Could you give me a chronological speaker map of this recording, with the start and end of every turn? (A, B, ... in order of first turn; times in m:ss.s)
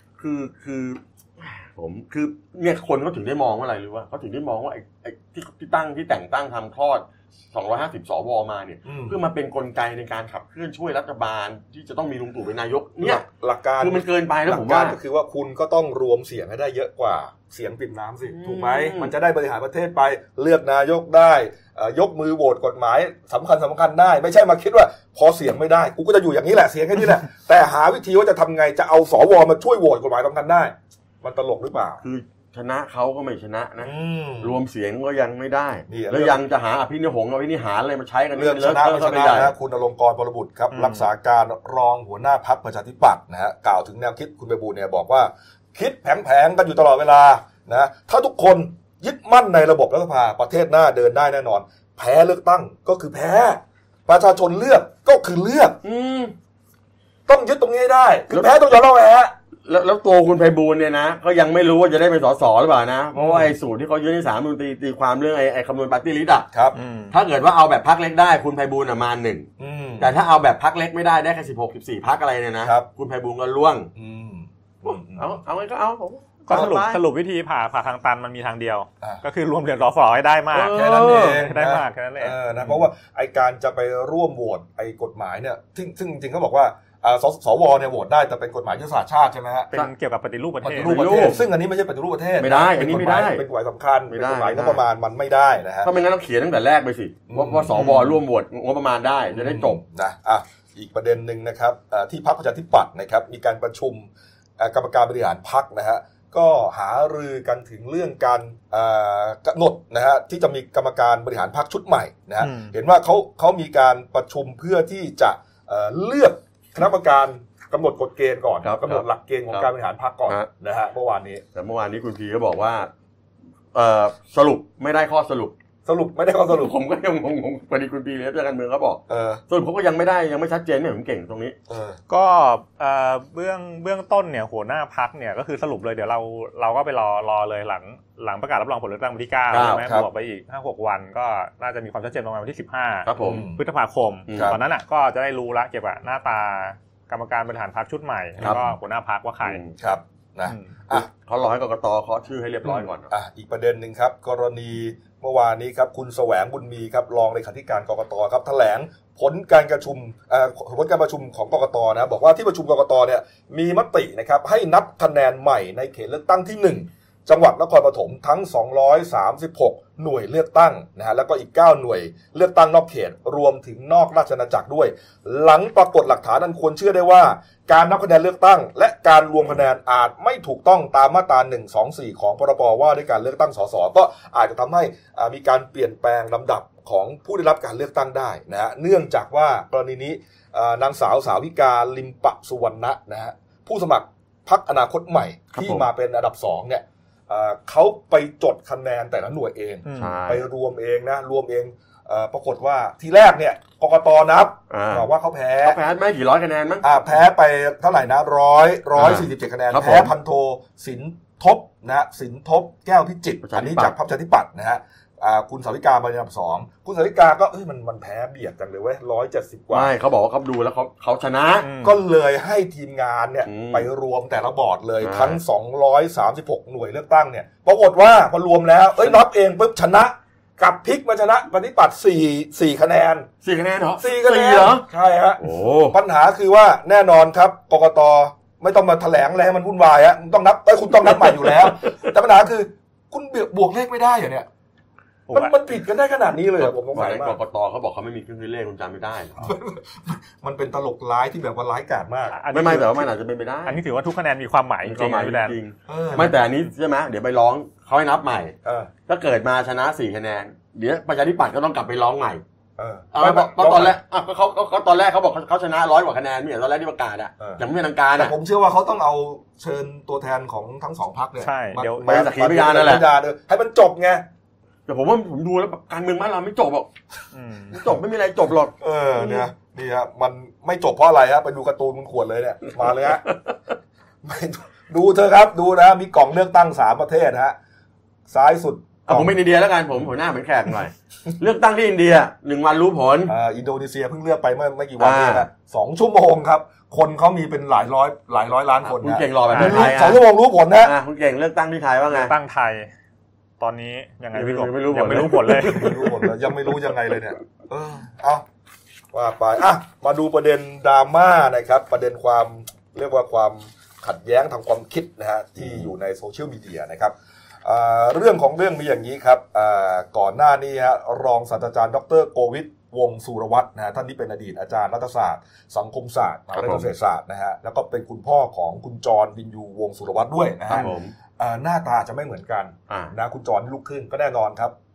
0:00.2-0:13.2 A
0:08.8-0:09.1 B
0:13.0-0:32.0 B
0:13.8-0:15.0 A
0:18.2-0:19.1 A
0:32.0-0:39.5 A
0:33.8-0:34.6 B
0:35.9-0:36.4 B
0:38.4-0:55.8 B
0:40.7-0:41.0 C
0:55.8-0:56.3 A
0:57.3-0:59.3 B
0:59.6-1:06.5 A
1:03.2-1:03.5 B
1:06.5-1:06.8 B
1:06.7-1:07.1 C
1:07.1-1:09.5 A
1:09.6-1:10.1 B
1:10.0-1:13.9 A
1:13.9-1:15.4 B
1:14.8-1:17.0 A
1:16.5-1:22.4 C
1:20.5-1:21.4 A
1:20.7-1:29.7 B
1:29.7-1:31.3 C
1:30.6-1:35.9 B
1:30.8-1:31.4 A
1:32.4-1:33.4 A
1:34.1-1:34.8 A
1:35.8-1:39.8 A
1:37.3-1:38.1 B
1:39.3-2:01.4 B
1:52.4-1:52.7 C
1:58.6-1:59.7 A
2:01.5-2:02.9 A
2:03.7-2:05.5 A
2:05.8-2:06.7 B
2:06.5-2:11.6 A
2:09.1-2:09.4 B
2:11.7-2:12.0 B
2:12.1-2:29.6 C
2:19.5-2:19.9 A
2:23.0-2:23.4 A
2:23.2-2:23.6 B
2:24.3-2:24.6 A
2:24.3-2:24.6 B
2:28.4-2:28.7 B
2:29.4-2:29.7 A
2:29.8-2:31.1 B
2:30.9-2:33.1 A
2:33.1-3:25.8 B
3:15.5-3:15.8 A
3:19.8-3:20.2 C
3:20.0-3:20.4 A
3:24.7-3:25.1 A
3:25.6-3:26.8 A
3:26.8-3:39.9 B
3:29.0-3:30.1 A
3:33.4-3:33.9 A
3:39.7-3:41.7 A
3:41.6-3:42.0 C
3:41.8-3:53.3 B
3:43.4-3:43.9 A
3:45.0-3:45.4 A
3:53.4-3:54.8 A
3:54.0-4:04.5 B
3:55.4-3:56.0 A
4:01.2-4:01.7 A
4:05.3-4:05.5 C
4:05.3-4:07.4 B
4:06.6-4:09.4 A
4:09.4-4:12.4 B
4:12.3-4:13.1 C
4:12.5-4:13.8 A
4:13.6-4:15.6 C
4:14.8-4:18.5 A
4:15.9-4:16.4 B
4:18.6-4:18.9 B
4:19.1-4:22.4 A
4:22.8-4:24.0 B
4:23.1-4:28.3 A
4:28.2-4:34.2 B
4:31.4-4:32.0 C
4:32.0-4:33.0 A
4:34.9-4:36.9 A
4:37.3-4:37.8 C
4:37.7-4:39.4 A
4:38.8-4:43.3 B
4:44.2-4:47.6 B
4:48.3-4:49.4 B
4:49.1-4:53.3 A
4:53.3-5:00.9 B
4:55.0-4:55.5 A
4:58.8-5:00.2 A
4:59.5-4:59.9 C
5:00.8-5:02.3 A
5:02.1-5:02.9 C
5:03.6-5:06.0 C
5:04.3-5:06.1 A
5:05.6-5:08.4 B
5:09.1-5:17.1 B
5:15.6-5:15.9 A
5:17.6-5:34.7 B
5:26.5-5:26.9 A
5:30.7-5:31.1 A
5:32.9-5:33.1 A